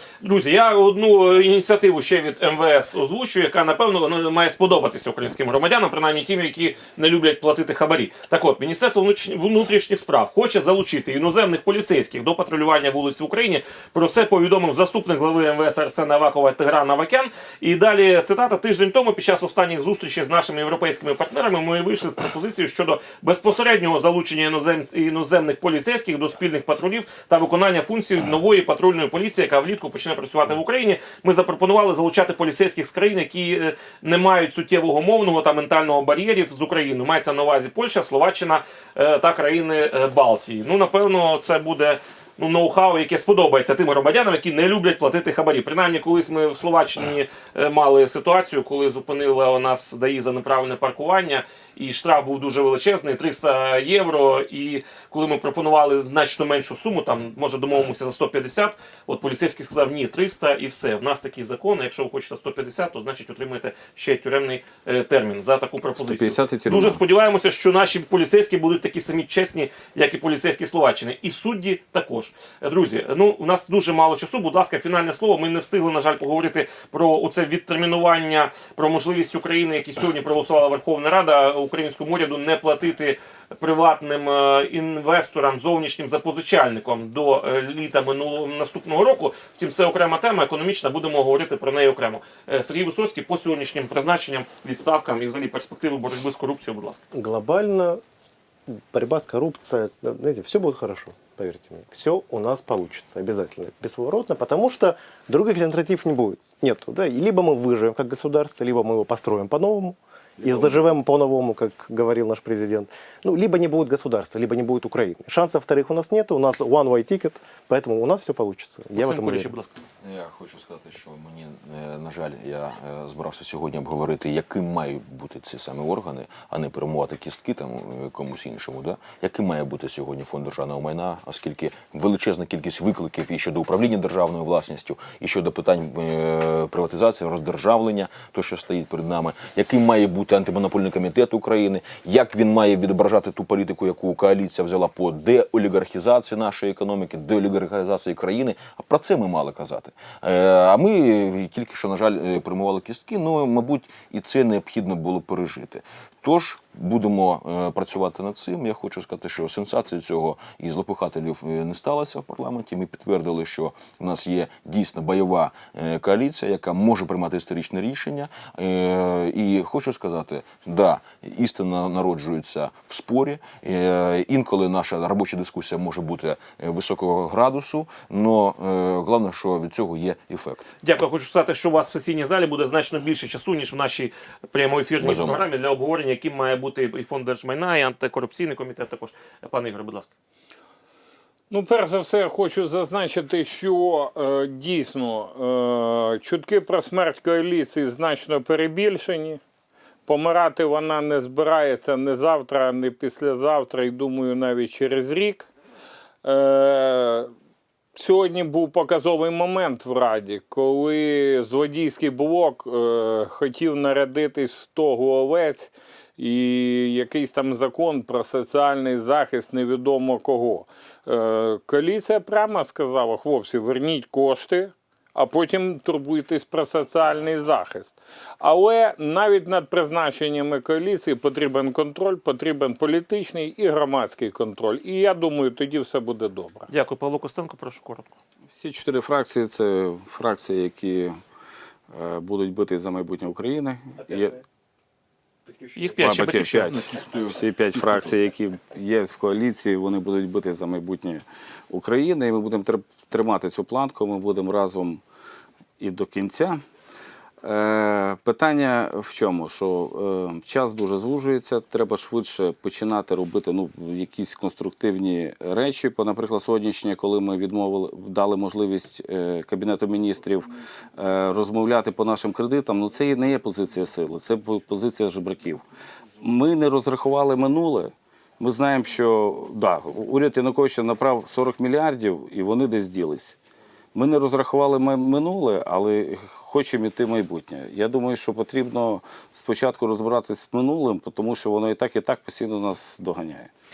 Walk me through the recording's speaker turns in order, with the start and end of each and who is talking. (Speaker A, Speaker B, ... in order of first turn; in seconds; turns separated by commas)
Speaker A: 0.2-97.0, Speaker B: 66.0-67.0, Speaker C: 97.1-98.0, Speaker C: 98.8-119.5, Speaker A: 118.9-119.7, Speaker D: 120.0-180.6, Speaker A: 180.8-190.1, Speaker D: 185.0-185.5, Speaker E: 191.5-199.4, Speaker E: 200.1-205.5, Speaker E: 206.2-207.3, Speaker E: 207.9-236.7, Speaker A: 236.7-238.1, Speaker B: 238.5-241.1, Speaker B: 241.9-244.4, Speaker A: 245.7-246.8, Speaker B: 246.0-255.0, Speaker B: 255.8-256.6, Speaker B: 257.4-275.6, Speaker B: 276.2-283.4, Speaker B: 283.9-293.5